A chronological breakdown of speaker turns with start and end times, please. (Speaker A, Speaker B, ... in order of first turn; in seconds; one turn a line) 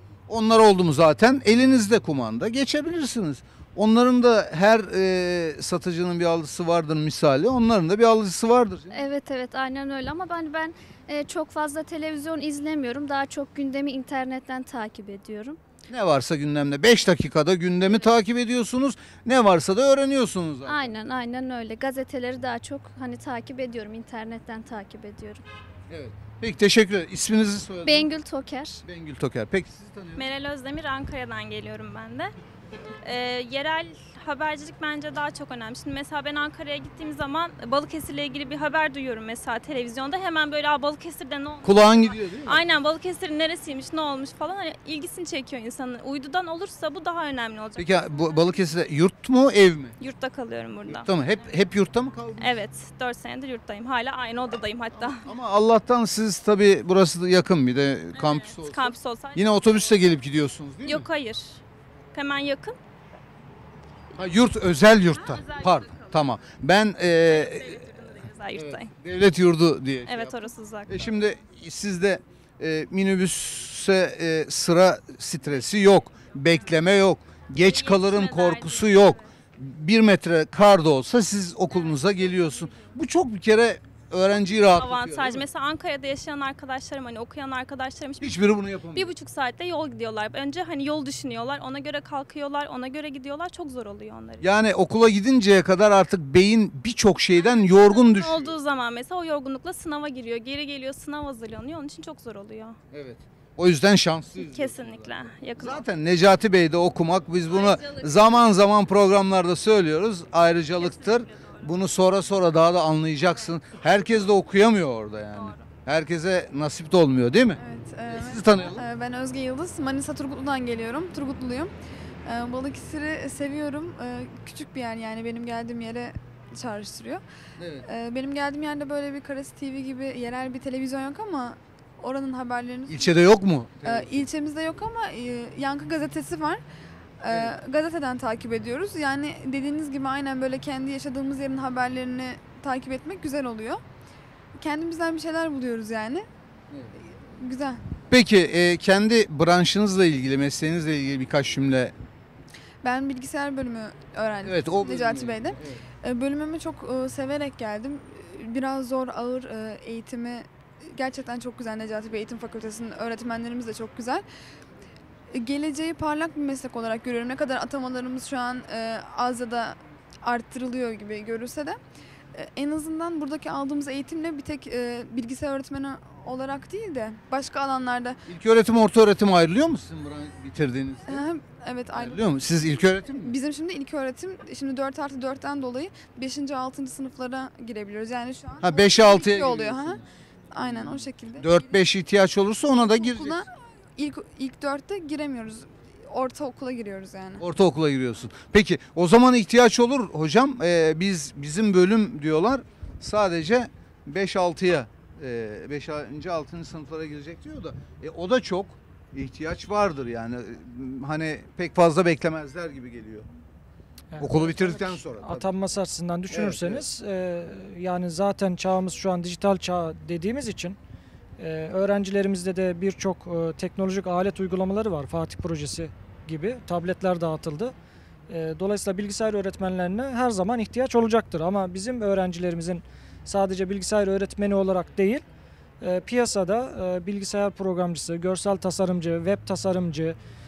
Speaker A: 0.3-8.9
Speaker B: 8.9-15.6
Speaker A: 15.9-20.9
Speaker B: 20.7-25.4
Speaker A: 25.9-28.1
Speaker B: 27.8-28.8
Speaker A: 28.9-30.3
Speaker C: 30.2-32.3
Speaker C: 33.0-48.4
Speaker A: 41.6-42.6
Speaker A: 47.8-50.0
Speaker C: 50.0-51.0
Speaker A: 50.9-52.6
Speaker C: 52.4-55.2
Speaker A: 55.0-61.1
Speaker C: 58.1-59.9
Speaker C: 60.9-61.6
Speaker C: 62.1-62.8
Speaker A: 64.2-67.8
Speaker C: 65.2-66.1
Speaker C: 67.2-68.9
Speaker A: 68.5-85.5
Speaker C: 70.1-70.9
Speaker C: 77.6-79.2
Speaker C: 81.7-82.8
Speaker C: 84.3-94.4
Speaker A: 88.2-89.1
Speaker A: 94.4-98.5
Speaker C: 97.3-102.8
Speaker A: 102.9-118.8
Speaker C: 104.3-105.8
Speaker C: 107.5-108.4
Speaker C: 110.8-111.6
Speaker C: 115.3-115.6
Speaker D: 117.6-121.7
Speaker D: 122.2-127.2
Speaker A: 127.6-127.9
Speaker D: 127.8-133.1
Speaker A: 132.9-134.3
Speaker D: 133.8-136.6
Speaker D: 137.2-143.8
Speaker A: 137.3-137.5
Speaker D: 144.6-146.3
Speaker D: 147.4-147.8
Speaker A: 148.1-151.9
Speaker D: 152.8-164.2
Speaker A: 154.4-155.8
Speaker D: 165.3-171.8
Speaker D: 172.3-178.2
Speaker A: 178.3-181.2
Speaker D: 181.1-182.2
Speaker A: 181.9-183.3
Speaker D: 183.2-190.0
Speaker A: 188.6-190.0
Speaker D: 190.5-191.6
Speaker A: 190.7-193.4
Speaker D: 192.8-197.4
Speaker A: 197.4-213.3
Speaker E: 214.1-220.8
Speaker A: 214.2-215.5
Speaker A: 216.3-216.8
Speaker E: 221.4-227.7
Speaker E: 228.3-235.2
Speaker E: 235.8-240.2